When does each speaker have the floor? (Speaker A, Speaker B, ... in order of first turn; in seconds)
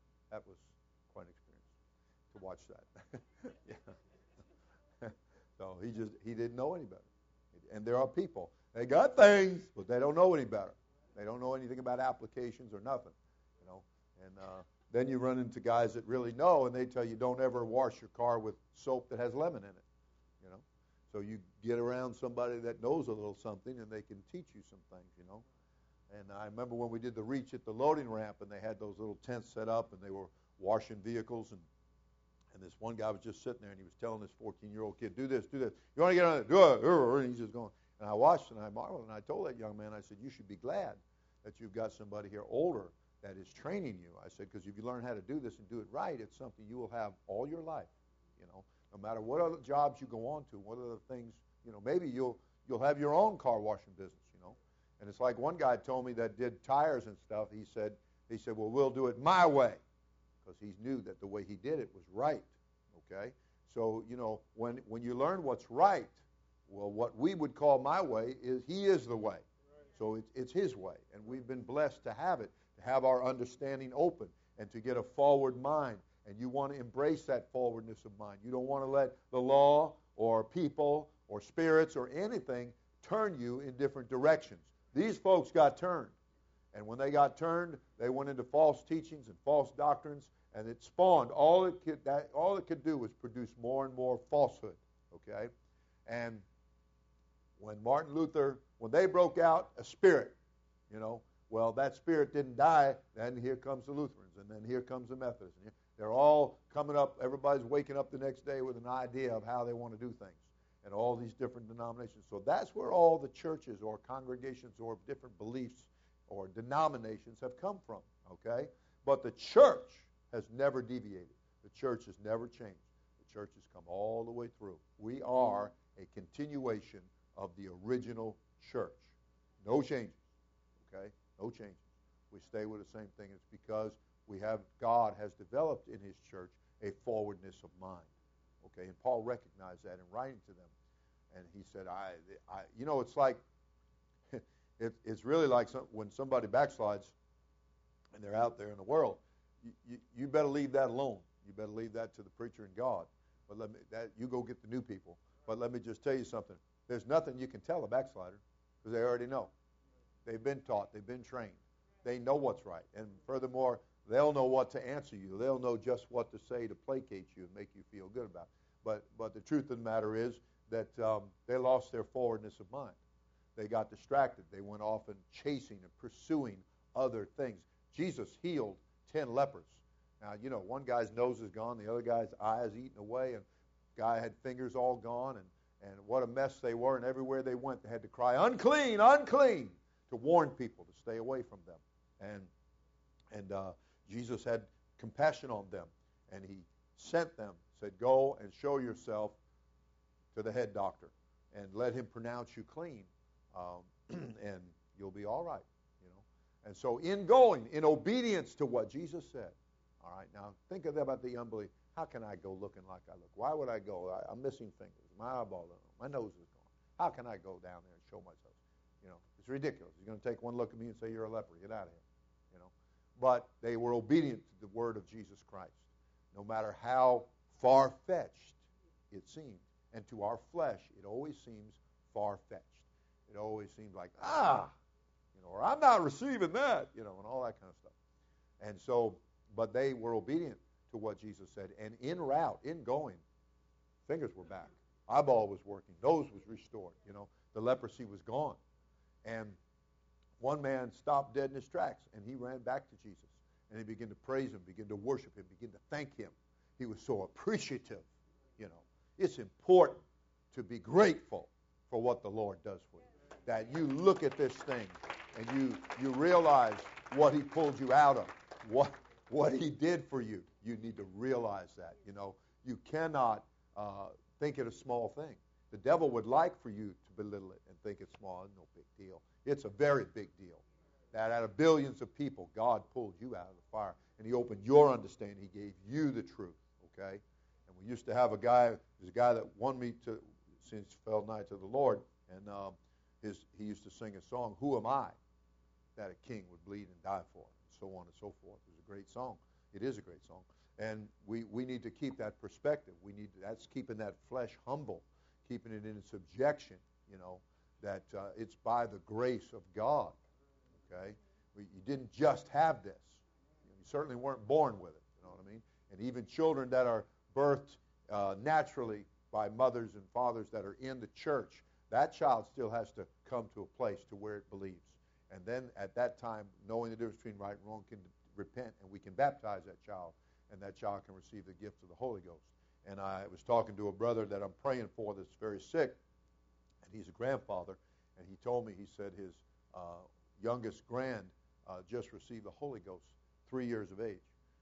Speaker A: 0.3-1.7, 2.3-3.9, 5.0-19.8, 20.4-25.4, 26.1-31.6, 32.5-59.8, 60.4-69.4, 69.9-86.1, 86.7-95.5, 96.0-96.4, 97.6-100.3, 100.9-129.1, 129.6-130.2, 130.8-138.1, 138.6-140.7, 141.3-143.4, 144.3-147.1, 148.1-159.5, 160.2-173.0, 173.6-183.4, 183.9-192.5, 193.3-199.4, 200.3-222.0, 222.5-228.6, 229.1-234.7, 235.3-237.9, 238.6-243.2, 244.1-248.6, 249.2-249.6, 250.4-295.1, 295.9-310.2, 310.8-336.0, 336.8-344.3